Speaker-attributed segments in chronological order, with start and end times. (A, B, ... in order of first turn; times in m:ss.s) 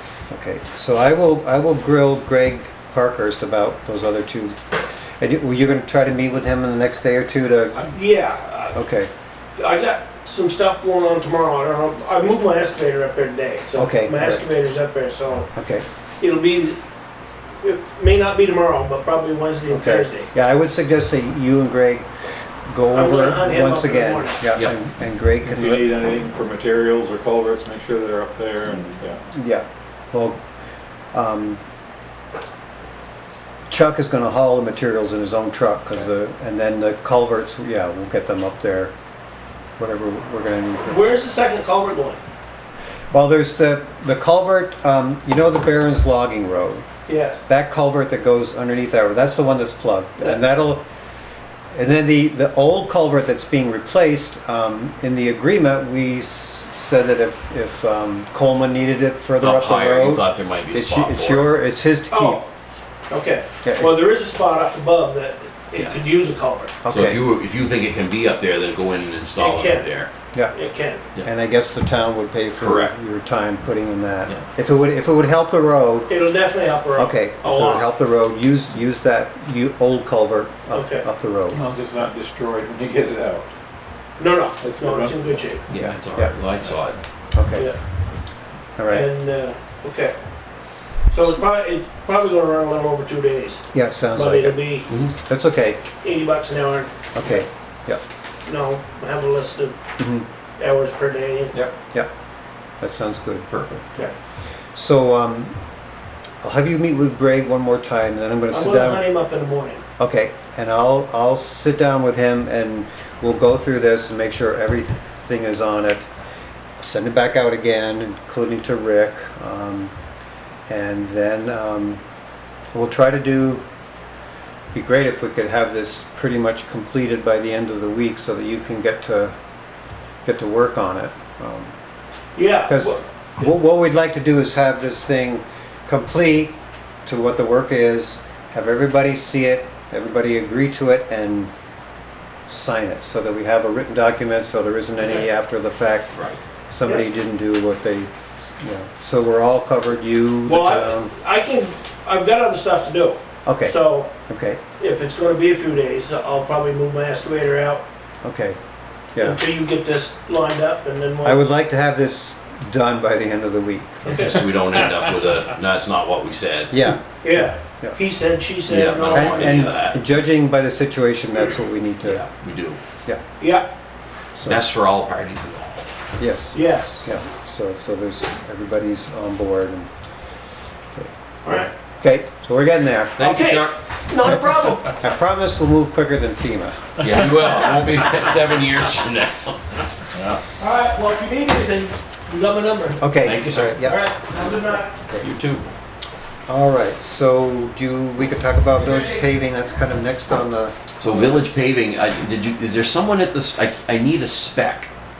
0:00.3-0:04.6 A
0:05.2-0:07.9 A
0:07.8-0:08.8 B
0:08.7-0:09.1 A
0:09.6-0:15.5 B
0:13.8-0:14.4 A
0:15.5-0:15.8 A
0:16.2-0:16.8 B
0:17.6-0:20.3 B
0:19.7-0:22.1 A
0:22.6-0:25.9 A
0:22.9-0:24.4 B
0:25.4-0:29.2 C
0:29.3-0:30.4 A
0:31.1-0:31.6 A
0:33.7-0:38.9 A
0:39.8-0:41.1 A
0:40.8-0:42.2 B
0:43.1-0:46.8 A
0:47.1-0:47.4 B
0:47.5-0:50.8 A
0:51.7-1:02.4 A
0:59.4-1:01.5 D
1:02.1-1:02.4 B
1:03.1-1:06.7 B
1:03.6-1:03.9 A
1:06.8-1:07.2 A
1:06.9-1:10.1 D
1:09.4-1:09.9 B
1:10.5-1:11.0 B
1:11.2-1:16.1 A
1:12.6-1:12.9 D
1:16.1-1:17.9 B
1:17.0-1:21.6 A
1:20.7-1:21.1 B
1:21.5-1:23.5 C
1:24.2-1:25.6 B
1:24.6-1:25.4 C
1:25.7-1:27.0 D
1:25.7-1:26.3 A
1:27.3-1:27.7 A
1:28.8-1:29.1 A
1:28.9-1:30.1 B
1:31.1-1:33.6 B
1:33.7-1:35.8 A
1:34.1-1:34.9 B
1:34.9-1:35.1 D
1:36.0-1:37.4 B
1:37.1-1:38.0 A
1:38.4-1:39.8 B
1:40.0-1:40.2 A
1:40.6-1:41.5 B
1:42.8-1:43.8 A
1:44.7-1:45.5 A
1:46.4-1:49.0 A
1:48.5-1:49.8 B
1:50.0-1:56.0 A
1:56.8-1:59.9 A
2:00.7-2:02.0 A
2:02.7-2:03.6 A
2:04.7-2:09.4 A
2:10.2-2:11.7 A
2:12.4-2:13.0 B
2:12.6-2:21.5 A
2:22.5-2:31.1 A
2:26.1-2:26.4 D
2:30.5-2:34.1 B
2:33.4-2:34.6 A
2:34.8-2:37.8 B
2:38.2-2:38.6 A
2:39.2-2:41.4 B
2:41.2-2:44.3 A
2:44.0-2:44.4 B
2:44.1-2:46.7 D
2:46.7-2:48.0 A
2:47.2-2:49.7 B
2:48.7-2:50.0 D
2:49.1-2:52.2 A
2:52.0-2:52.8 D
2:53.4-2:53.7 B
2:54.3-2:54.6 A
2:54.4-2:55.9 D
2:56.2-2:59.9 A
2:56.5-2:57.0 B
3:00.9-3:03.2 A
3:01.4-3:01.7 B
3:03.2-3:03.8 D
3:03.2-3:05.0 B
3:04.8-3:07.2 A
3:07.0-3:09.9 D
3:10.6-3:13.0 B
3:13.0-3:15.3 A
3:13.2-3:13.8 D
3:13.7-3:14.9 B
3:15.2-3:15.7 D
3:16.5-3:21.4 A
3:18.7-3:19.2 B
3:21.0-3:24.9 D